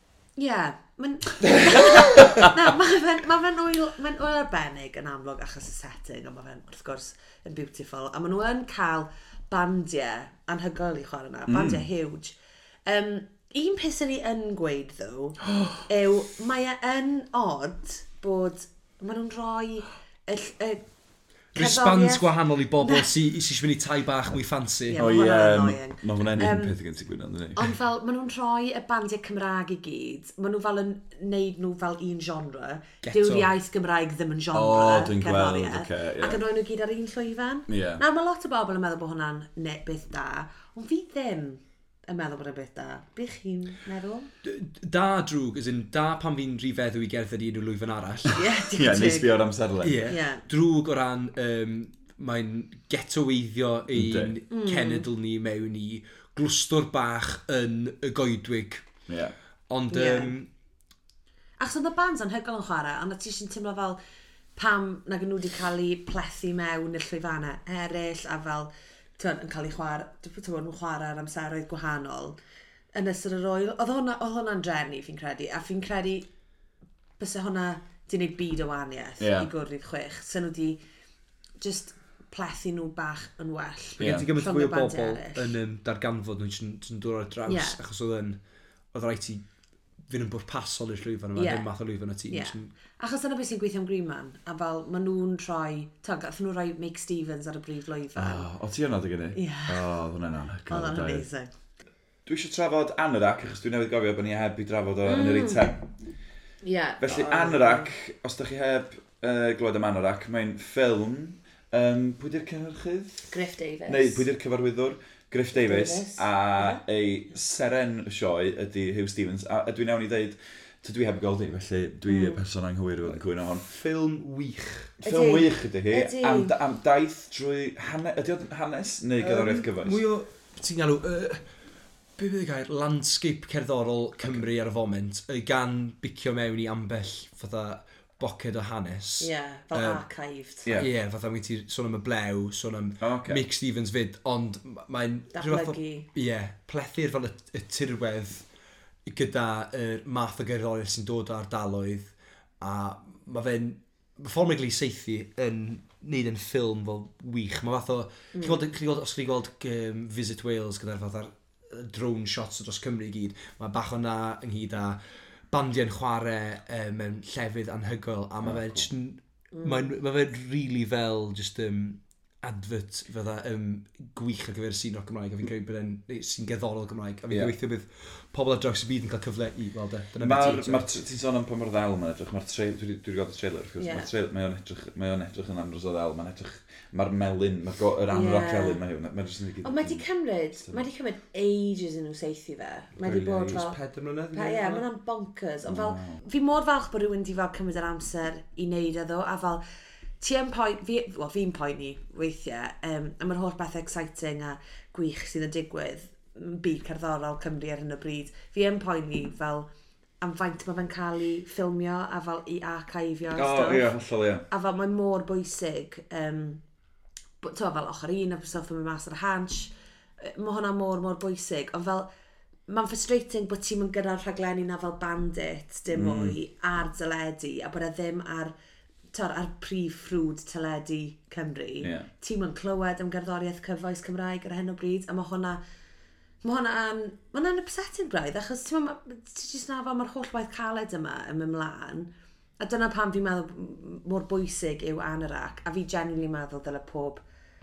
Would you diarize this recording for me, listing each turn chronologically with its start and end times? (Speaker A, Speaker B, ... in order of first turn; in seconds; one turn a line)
Speaker A: 0.3-12.3
Speaker B: 11.5-11.9
Speaker A: 12.8-20.8
Speaker A: 21.5-22.3
Speaker C: 21.5-25.1
Speaker A: 22.8-23.1
Speaker A: 24.9-26.8
Speaker B: 25.0-27.7
Speaker A: 27.6-44.3
Speaker C: 33.0-33.5
Speaker B: 34.5-36.4
Speaker B: 37.7-38.0
Speaker C: 44.4-48.4
Speaker A: 48.3-49.4
Speaker B: 48.7-50.1
Speaker C: 49.8-58.9
Speaker A: 50.1-50.4
Speaker B: 53.9-54.3
Speaker A: 54.5-55.1
Speaker B: 59.1-59.3
Speaker C: 59.7-60.5
Speaker A: 59.9-60.3
Speaker A: 61.6-64.0
Speaker A: 64.5-72.4
Speaker A: 72.9-76.3
Speaker A: 77.2-80.8
Speaker B: 79.2-79.5
Speaker A: 81.6-85.5
Speaker B: 84.0-84.3
Speaker C: 84.0-88.4
Speaker A: 87.5-87.8
Speaker C: 88.9-89.4
Speaker C: 90.1-92.7
Speaker A: 91.3-91.7
Speaker A: 92.3-98.5
Speaker B: 98.2-101.2
Speaker A: 99.3-99.9
Speaker A: 100.7-101.5
Speaker B: 102.2-105.8
Speaker A: 105.0-105.7
Speaker A: 106.6-107.9
Speaker B: 107.0-113.3
Speaker A: 113.3-114.2
Speaker B: 113.8-123.7
Speaker A: 115.5-116.8
Speaker A: 122.1-122.4
Speaker C: 123.6-124.9
Speaker B: 125.0-130.0
Speaker A: 125.0-126.5
Speaker C: 129.2-131.5
Speaker C: 132.2-140.0
Speaker A: 139.2-140.7
Speaker C: 140.7-148.5
Speaker B: 143.0-143.4
Speaker A: 145.3-146.1
Speaker C: 149.1-180.9
Speaker A: 158.3-158.6
Speaker B: 168.4-168.9
Speaker A: 169.5-169.9
Speaker B: 180.2-190.0
Speaker A: 183.8-184.1
Speaker A: 188.1-188.8
Speaker A: 189.6-193.8
Speaker B: 190.6-190.9
Speaker C: 193.0-194.8
Speaker A: 194.3-199.6
Speaker B: 195.6-196.2
Speaker A: 200.2-209.7
Speaker A: 210.2-213.9
Speaker B: 213.3-214.4
Speaker A: 214.5-216.6
Speaker A: 217.4-222.1
Speaker A: 222.7-228.5
Speaker B: 225.9-226.4
Speaker A: 229.1-235.6
Speaker B: 231.8-232.1
Speaker A: 236.4-247.2